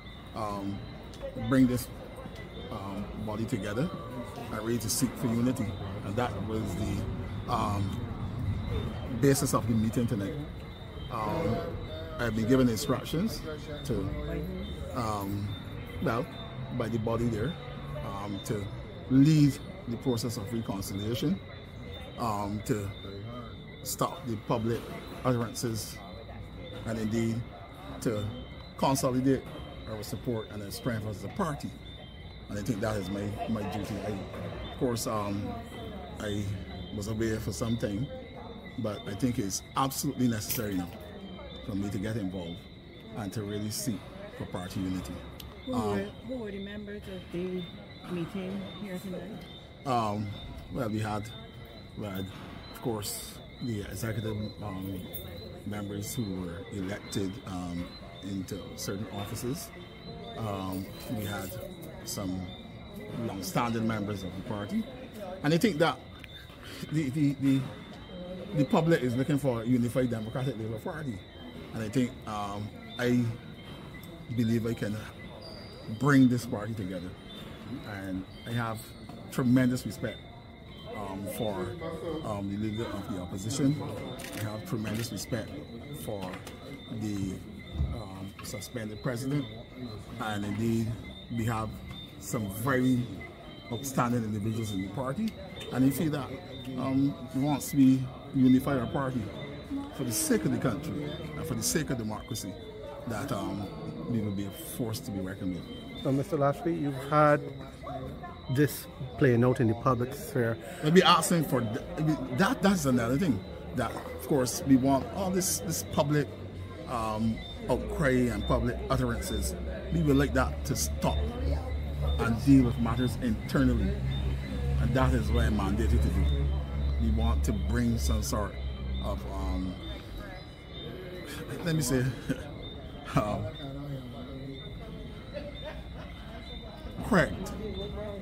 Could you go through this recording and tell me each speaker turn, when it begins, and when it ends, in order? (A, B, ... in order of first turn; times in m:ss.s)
0:00.3-0:00.8 A
0:01.3-0:01.9 A
0:02.7-0:03.9 A
0:04.5-0:08.0 A
0:09.1-0:10.4 A
0:11.1-0:14.1 A
0:14.2-0:14.7 B
0:14.9-0:21.4 A
0:22.2-0:23.0 A
0:23.8-0:26.0 A
0:26.8-0:27.4 A
0:28.0-0:31.8 A
0:32.5-0:35.6 A
0:36.2-0:38.1 A
0:38.8-0:40.9 A
0:41.6-0:46.1 A
0:45.6-0:49.4 B
0:49.8-0:51.3 A
0:52.0-0:59.7 A
1:00.4-1:02.5 A
1:03.1-1:04.9 A
1:05.4-1:06.0 A
1:06.7-1:07.7 A
1:08.5-1:13.4 A
1:14.3-1:15.1 A
1:15.9-1:17.2 A
1:17.8-1:20.2 A
1:20.9-1:29.5 A
1:30.2-1:33.1 A
1:33.7-1:39.3 A
1:39.9-1:45.7 A
1:46.0-1:47.6 C
1:48.5-1:50.6 C
1:50.8-1:56.3 A
1:56.8-2:01.2 A
2:02.2-2:03.9 A
2:04.8-2:06.3 A
2:07.0-2:09.8 A
2:11.4-2:12.4 A
2:13.0-2:13.5 A
2:17.0-2:17.6 A